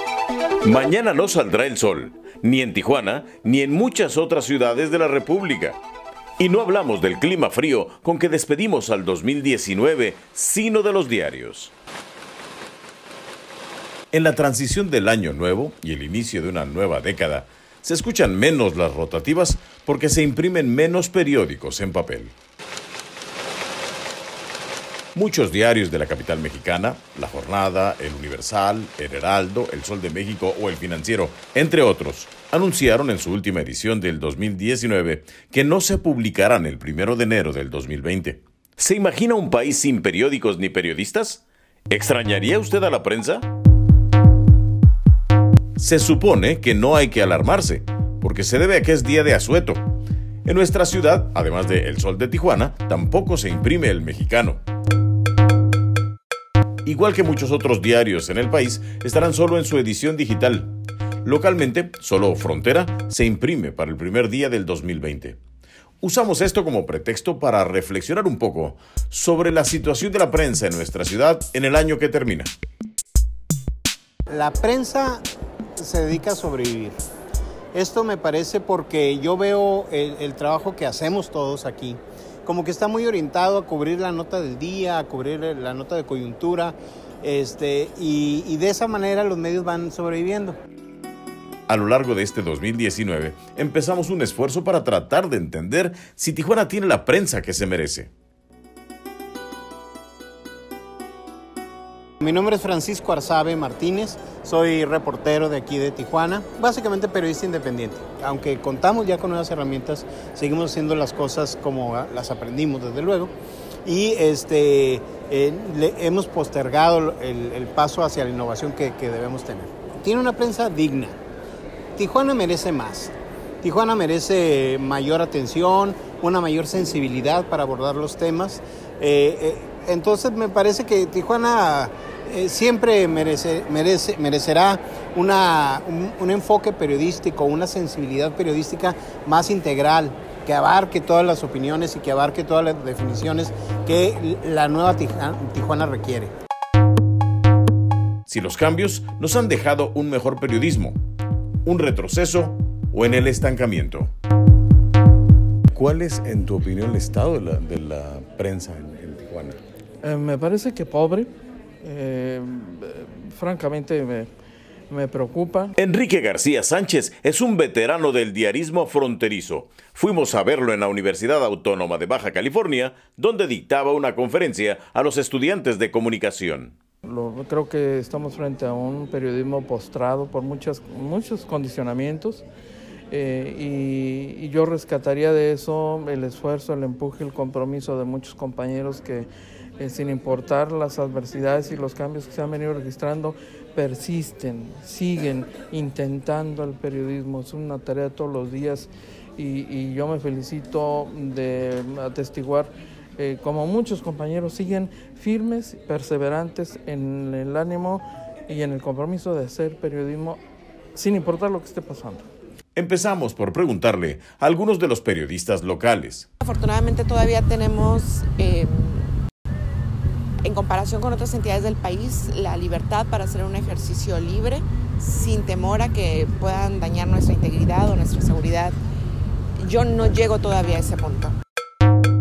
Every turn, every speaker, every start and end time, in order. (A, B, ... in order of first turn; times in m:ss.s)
0:00.6-0:05.8 A
0:06.4-0:11.7 A
0:14.1-0:22.3 A
0:25.2-0:43.5 A
0:45.8-0:49.9 A
0:50.4-0:54.6 A
0:56.8-1:00.7 A
1:01.2-1:05.4 A
1:06.0-1:12.5 A
1:14.3-1:15.2 B
1:15.8-1:17.0 B
1:17.7-1:30.6 B
1:31.7-1:38.1 A
1:42.2-1:53.3 B
1:53.8-2:01.2 B
2:02.0-2:26.3 B
2:28.3-2:31.0 A
2:31.6-2:34.1 A
2:35.7-2:39.6 A
2:40.0-2:41.3 C
2:41.8-2:44.3 C
2:44.9-2:45.8 C
2:45.8-2:56.7 A
2:57.0-3:02.4 C
3:03.1-3:09.3 C
3:09.8-3:30.4 C
3:31.0-3:32.3 C
3:32.8-3:36.3 A
3:36.4-3:39.1 D
3:40.4-3:48.8 D
3:49.6-3:51.4 D